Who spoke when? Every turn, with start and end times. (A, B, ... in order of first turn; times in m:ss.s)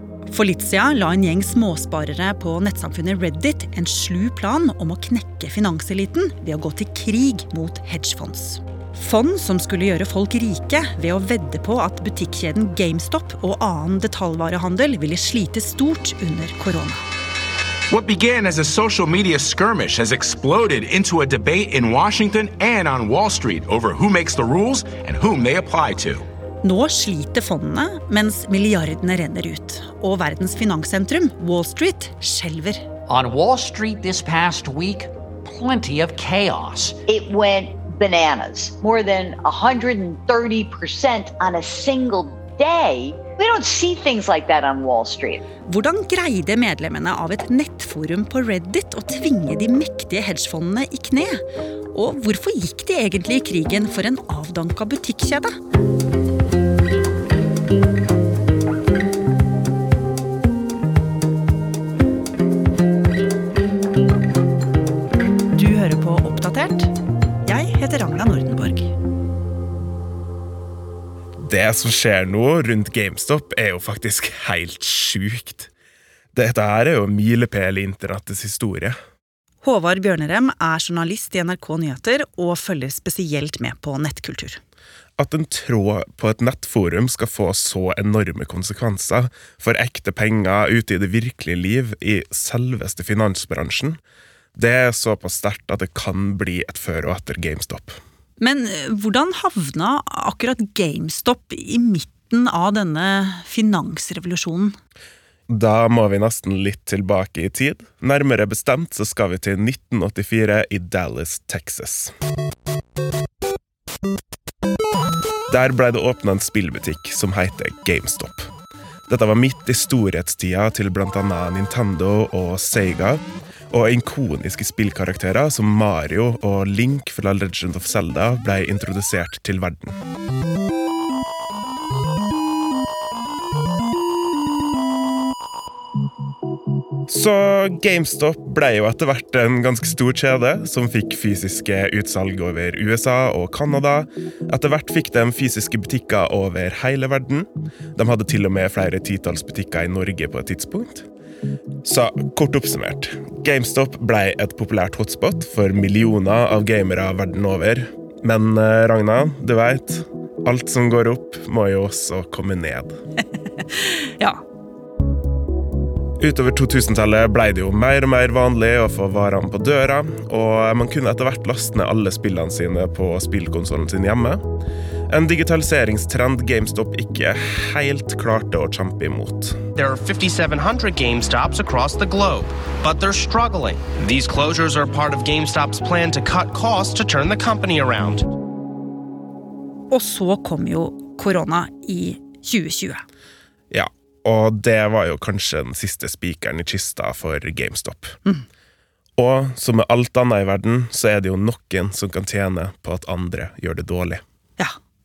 0:00.3-0:17.0 A
0:17.9-0:26.2 B
0:26.6-0:32.8 A
0:33.1-0:37.0 C
0:37.1-0:45.4 D
0:45.7-0:51.4 A
0:51.9-0:55.5 A
1:05.5-1:06.9 A
1:07.5-1:08.9 A
1:11.4-1:15.7 E
1:16.4-1:19.0 E
1:19.6-1:24.6 A
1:25.2-1:34.0 E
1:34.6-1:38.0 E
1:38.4-1:44.8 A
1:45.5-1:52.1 E
1:55.5-1:58.5 E
1:59.1-2:10.0 E
2:17.1-2:31.1 E
2:31.8-2:43.0 E
2:43.6-2:44.4 A
2:46.2-2:54.4 E
2:55.1-2:59.6 E
2:59.8-3:08.2 F
3:09.9-3:13.0 A
3:13.7-3:18.2 E
3:19.2-3:24.2 E